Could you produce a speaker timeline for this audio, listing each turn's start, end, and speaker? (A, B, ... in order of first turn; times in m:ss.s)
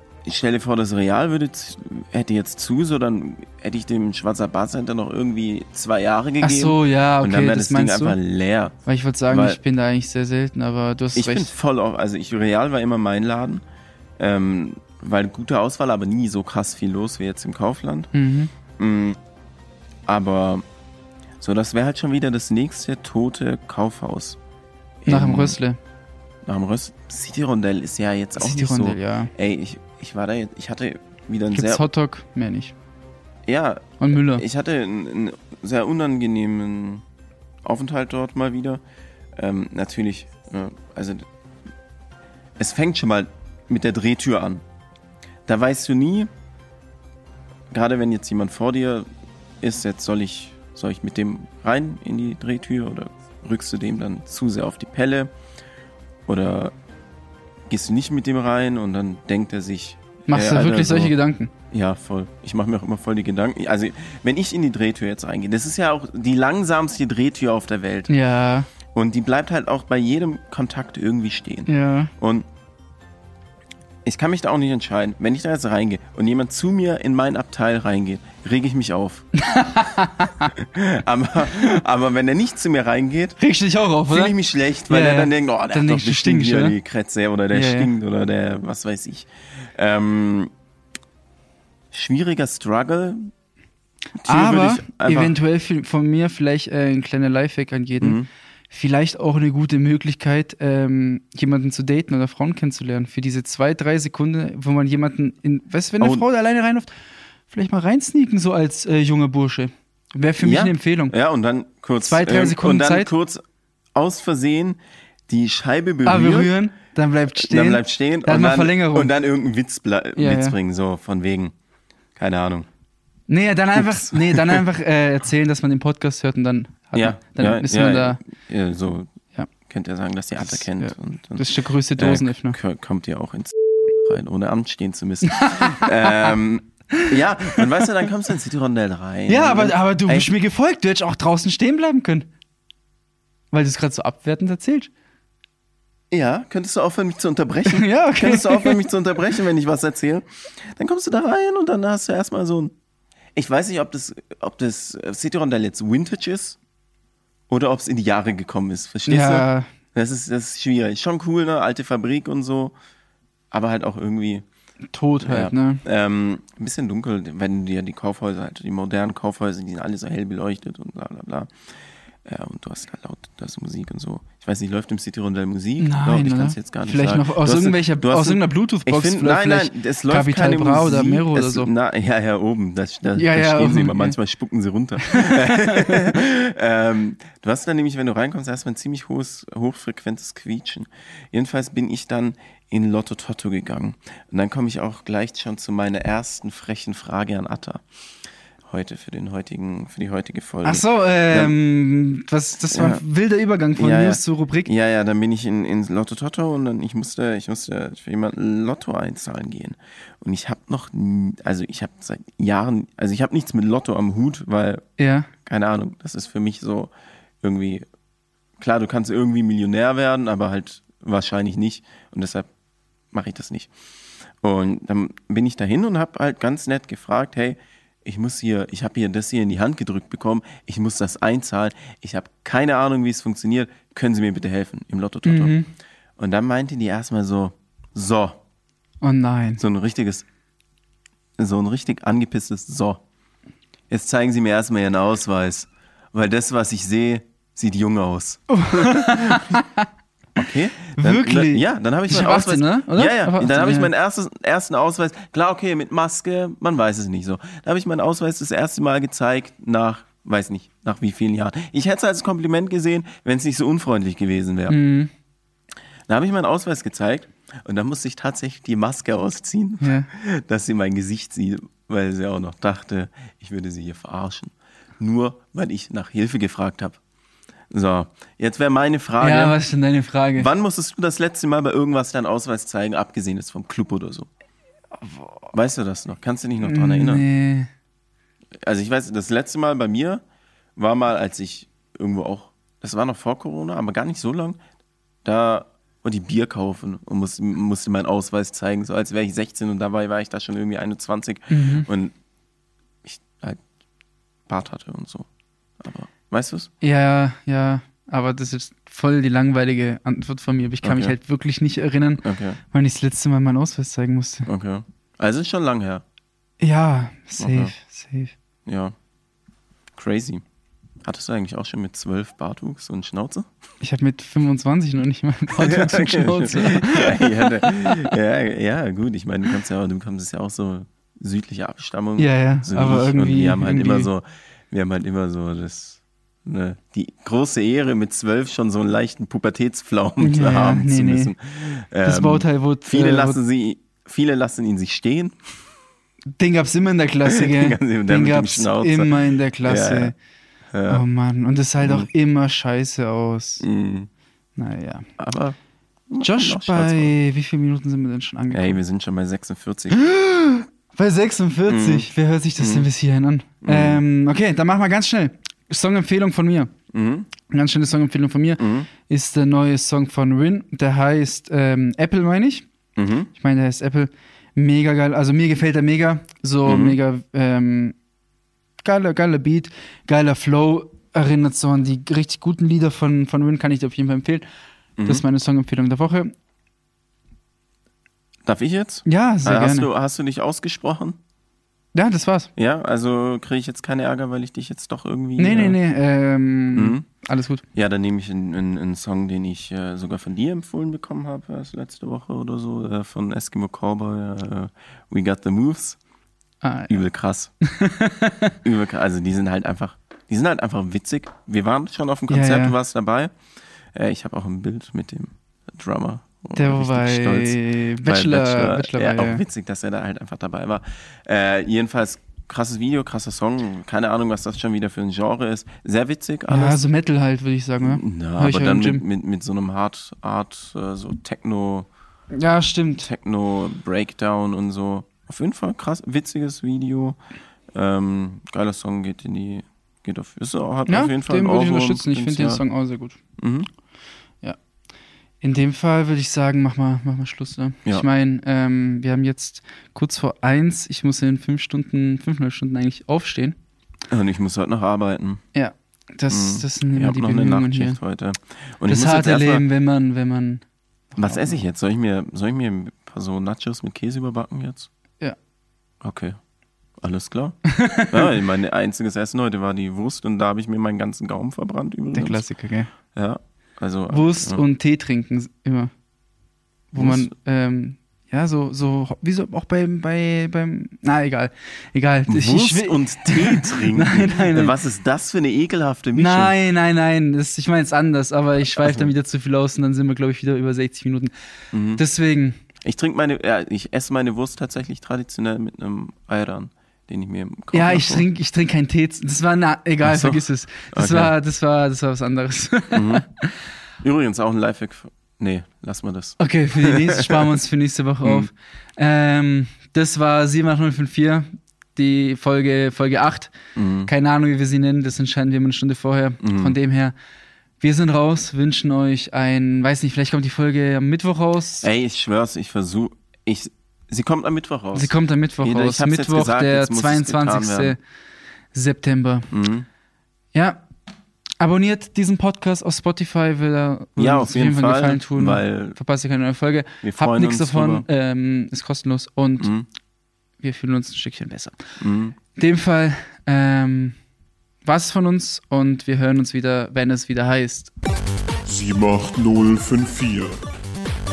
0:00.2-0:08.8 A
0:06.4-0:08.2 B
0:08.9-0:11.5 B
0:09.3-0:09.6 A
0:11.1-0:13.6 A
0:14.2-0:18.1 A
0:18.1-0:18.5 B
0:18.8-0:19.2 A
0:20.1-0:20.7 A
0:21.4-0:24.4 A
0:25.0-0:25.6 A
0:25.1-0:25.8 B
0:26.4-0:31.9 A
0:28.4-0:29.3 B
0:31.5-0:32.8 B
0:33.5-0:37.0 A
0:34.0-0:34.4 B
0:37.6-0:38.8 A
0:39.4-0:41.3 A
0:42.6-0:44.6 A
0:45.5-0:46.3 A
0:47.7-0:49.1 A
0:49.6-0:55.3 A
0:56.3-0:56.7 A
0:57.7-1:01.2 A
1:00.3-1:01.5 B
1:01.7-1:08.1 A
1:08.1-1:08.7 B
1:08.9-1:12.5 A
1:11.7-1:12.1 B
1:14.0-1:19.3 A
1:19.4-1:20.5 B
1:20.5-1:23.4 A
1:23.4-1:24.4 B
1:24.1-1:30.5 A
1:24.9-1:26.8 B
1:27.5-1:27.9 B
1:31.9-1:33.3 A
1:34.2-1:35.4 A
1:34.2-1:46.9 B
1:38.0-1:38.3 A
1:47.5-1:51.2 B
1:50.4-1:53.4 A
1:52.0-1:53.1 B
1:53.9-1:56.5 A
1:56.0-1:59.1 B
1:57.3-2:01.5 A
2:00.2-2:00.6 B
2:02.2-2:02.7 A
2:03.3-2:08.2 B
2:03.8-2:04.6 A
2:07.0-2:09.1 A
2:09.7-2:20.3 A
2:10.4-2:12.6 B
2:15.3-2:16.3 B
2:16.9-2:17.9 B
2:19.3-2:22.3 B
2:23.5-2:24.9 B
2:26.1-2:32.7 A
2:27.6-2:28.8 B
2:33.4-2:36.6 A
2:37.5-2:42.8 A
2:39.1-2:39.7 B
2:43.5-2:44.4 A
2:44.9-2:45.8 B
2:45.2-2:51.5 A
2:52.2-3:17.8 A
2:55.8-3:01.7 B
3:03.2-3:04.2 B
3:05.0-3:06.1 B
3:18.7-3:21.6 A
3:20.6-3:24.7 B
3:22.7-3:23.0 A
3:23.8-3:34.8 A
3:35.0-3:35.3 B
3:35.4-3:37.8 A
3:38.6-3:42.5 A
3:43.1-3:43.7 A
3:44.4-3:55.6 A
3:55.2-3:55.7 B
3:56.2-3:58.4 A
3:59.0-3:59.6 B
3:59.6-4:00.3 A
4:01.4-4:03.0 A
4:03.9-4:09.6 A
4:08.5-4:09.9 B
4:10.4-4:24.8 A
4:10.9-4:13.9 B
4:24.7-4:25.1 B
4:26.1-4:37.0 A
4:29.8-4:30.1 B
4:37.7-4:39.6 A
4:39.2-4:40.5 B
4:40.4-4:44.3 A
4:45.5-4:47.2 A
4:46.6-4:47.7 B
4:48.6-4:50.2 A
4:50.8-4:54.6 A
4:55.2-5:02.1 A
5:01.5-5:01.9 B
5:03.0-5:03.6 A
5:04.5-5:05.3 A
5:05.8-5:06.7 A
5:06.8-5:14.5 B
5:10.8-5:11.2 A
5:12.2-5:12.6 A
5:14.5-5:16.0 A
5:16.6-5:18.3 B
5:17.4-5:17.7 A
5:18.7-5:19.0 A
5:19.9-5:20.4 A
5:21.0-5:23.5 A
5:23.8-5:28.0 B
5:25.5-5:45.4 A
5:32.2-5:34.1 B
5:40.2-5:41.3 B
5:42.0-5:43.4 B
5:46.4-5:50.1 B
5:47.2-5:50.1 A
5:50.7-5:51.0 A
5:50.9-5:53.6 B
5:51.8-5:52.1 A
5:53.6-5:54.1 A
5:54.6-5:55.1 B
5:55.2-5:55.6 A
5:56.1-5:57.1 A
5:56.2-5:58.8 B
5:58.5-6:00.0 A
5:59.9-6:06.7 B
6:01.7-6:02.9 A
6:03.6-6:04.0 A
6:06.9-6:07.3 A
6:07.5-6:12.7 B
6:08.6-6:08.9 A
6:13.0-6:13.3 A
6:13.3-6:18.0 B
6:16.6-6:17.0 A
6:18.8-6:24.5 B
6:25.0-6:25.2 A
6:25.0-6:26.3 B
6:28.4-6:31.2 A
6:29.1-6:29.9 B
6:32.0-6:32.5 B
6:32.6-6:35.8 A
6:35.4-6:37.6 B
6:36.7-6:37.0 A
6:37.7-6:46.0 A
6:46.6-6:47.0 B
6:46.9-6:47.5 A
6:47.6-6:48.5 B
6:48.6-6:53.3 A
6:52.3-6:52.8 B
6:53.9-7:06.8 A
6:56.6-6:59.4 B
7:06.5-7:09.0 B
7:07.8-7:11.9 A
7:12.3-7:13.1 B
7:13.0-7:17.2 A
7:17.7-7:22.6 A
7:20.9-7:23.2 B
7:23.4-7:23.7 A
7:25.4-7:33.6 B
7:34.1-7:35.4 A
7:35.5-7:38.0 B
7:36.3-7:39.6 A
7:38.9-7:41.6 B
7:41.2-7:44.9 A
7:46.0-7:46.4 A
7:47.0-7:52.4 A
7:47.7-7:48.3 B
7:52.1-7:52.9 B
7:53.1-7:54.6 A
7:54.1-7:55.9 B
7:56.9-8:04.8 B
7:57.0-7:57.3 A
8:02.3-8:06.5 A
8:06.2-8:11.3 B
8:08.8-8:09.1 A
8:11.7-8:12.0 A
8:12.0-8:12.6 B
8:12.8-8:18.3 A
8:17.7-8:23.5 B
8:20.0-8:21.3 A
8:22.9-8:23.2 A
8:24.0-8:27.5 A
8:26.4-8:37.2 B
8:28.2-8:28.5 A
8:33.8-8:34.1 A
8:36.4-8:36.8 A
8:37.8-8:41.9 B
8:41.8-8:48.0 A
8:44.9-8:48.0 B
8:48.7-8:49.5 B
8:49.5-8:49.9 A
8:50.5-8:50.8 B
8:51.6-8:59.7 B
8:54.2-8:56.0 A
8:57.0-8:58.0 A
8:59.6-8:59.9 A
9:00.6-9:01.8 B
9:02.0-9:02.4 A
9:02.6-9:04.2 B
9:04.8-9:07.9 B
9:08.6-9:10.6 C